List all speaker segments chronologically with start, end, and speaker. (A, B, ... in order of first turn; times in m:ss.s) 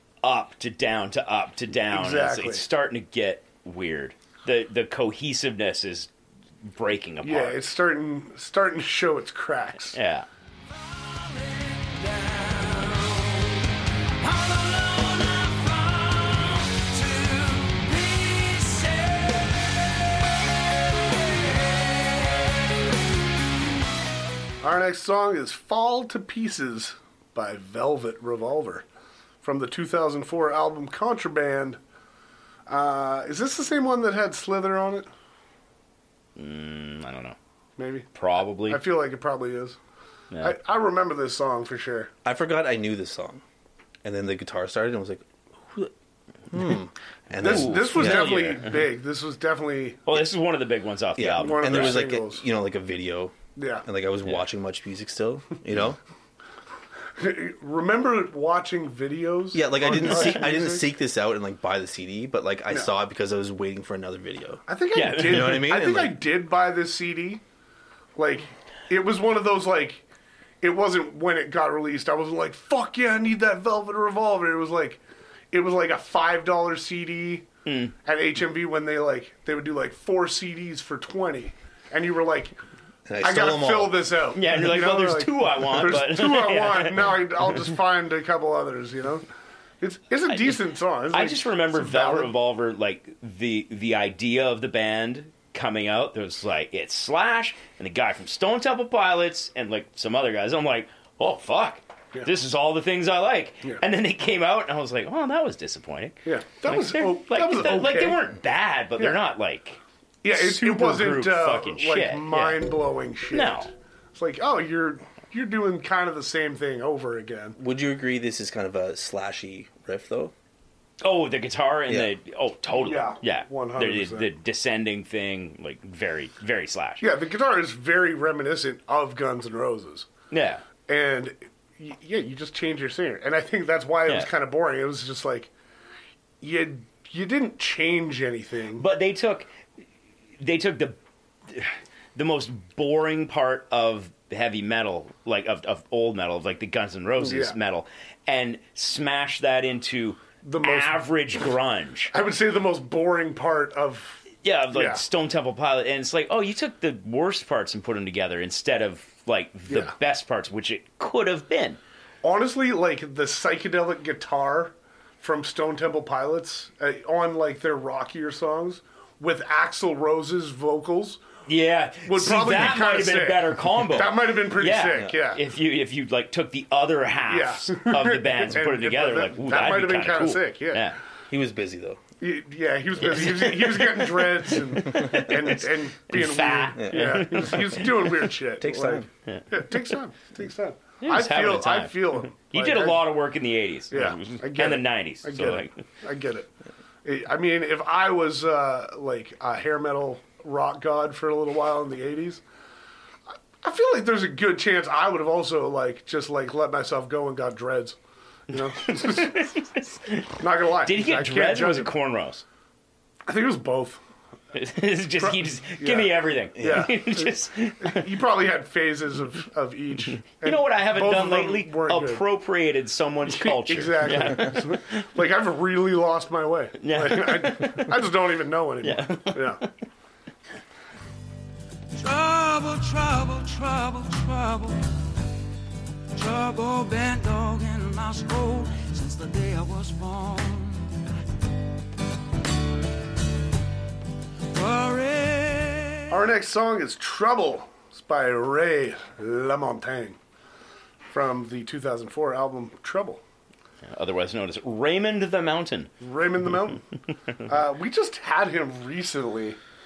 0:00.2-0:06.1 A
0:01.9-0:02.6 B
0:06.6-0:07.6 A
0:07.2-0:10.0 B
0:09.9-0:10.3 A
0:10.8-0:22.5 C
0:24.6-0:28.8 B
0:29.4-0:31.8 B
0:32.7-0:35.1 B
0:36.4-0:37.4 A
0:37.8-0:38.1 B
0:38.2-0:38.8 A
0:38.7-0:39.8 B
0:40.4-0:42.1 B
0:42.2-0:43.4 D
0:44.0-0:45.9 D
0:46.5-0:48.6 D
0:47.4-0:50.2 B
0:47.4-0:48.8 A
0:50.1-0:52.0 A
0:51.2-0:56.0 D
0:51.4-0:52.4 B
0:53.6-0:53.9 B
0:57.2-1:00.8 B
0:59.5-1:04.6 D
1:04.7-1:07.4 B
1:04.9-1:05.7 A
1:05.2-1:06.2 D
1:08.2-1:10.0 B
1:10.6-1:15.0 B
1:15.5-1:17.5 B
1:17.7-1:17.9 A
1:18.0-1:22.6 B
1:23.1-1:24.1 D
1:23.2-1:29.2 B
1:24.3-1:27.1 A
1:29.8-1:32.3 B
1:30.3-1:30.6 A
1:31.1-1:49.8 A
1:46.3-1:48.2 B
1:50.2-1:57.6 B
1:50.3-1:52.6 A
1:53.3-1:53.7 A
1:57.6-2:00.3 D
2:01.0-2:07.0 A
2:02.7-2:04.3 B
2:07.0-2:10.1 B
2:10.3-2:10.6 A
2:10.9-2:15.5 B
2:16.4-2:18.8 B
2:18.8-2:19.5 A
2:20.4-2:21.0 A
2:21.5-2:32.1 A
2:27.2-2:27.6 B
2:30.4-2:31.4 B
2:32.1-2:35.0 B
2:34.4-2:41.8 A
2:42.2-2:51.2 B
2:51.5-3:01.0 A
2:52.1-2:55.4 B
2:57.3-3:00.9 B
3:01.3-3:02.0 D
3:02.2-3:13.0 B
3:03.0-3:07.9 A
3:06.8-3:07.2 D
3:08.6-3:09.1 D
3:09.3-3:09.6 A
3:11.0-3:15.7 A
3:13.9-3:16.5 B
3:17.0-3:22.4 B
3:23.6-3:28.0 B
3:28.5-3:29.5 B
3:28.8-3:32.4 A
3:30.4-3:31.9 B
3:33.3-3:34.0 B
3:34.5-3:38.1 A
3:35.2-3:42.2 B
3:36.6-3:36.9 D
3:40.2-3:45.0 A
3:43.3-3:49.6 B
3:46.8-3:47.9 A
3:48.8-3:49.6 A
3:52.0-3:54.8 C
3:56.1-4:00.9 C
4:04.5-4:06.2 C
4:06.1-4:10.2 B
4:11.1-4:13.2 B
4:13.9-4:15.9 A
4:16.0-4:16.8 B
4:17.5-4:19.6 B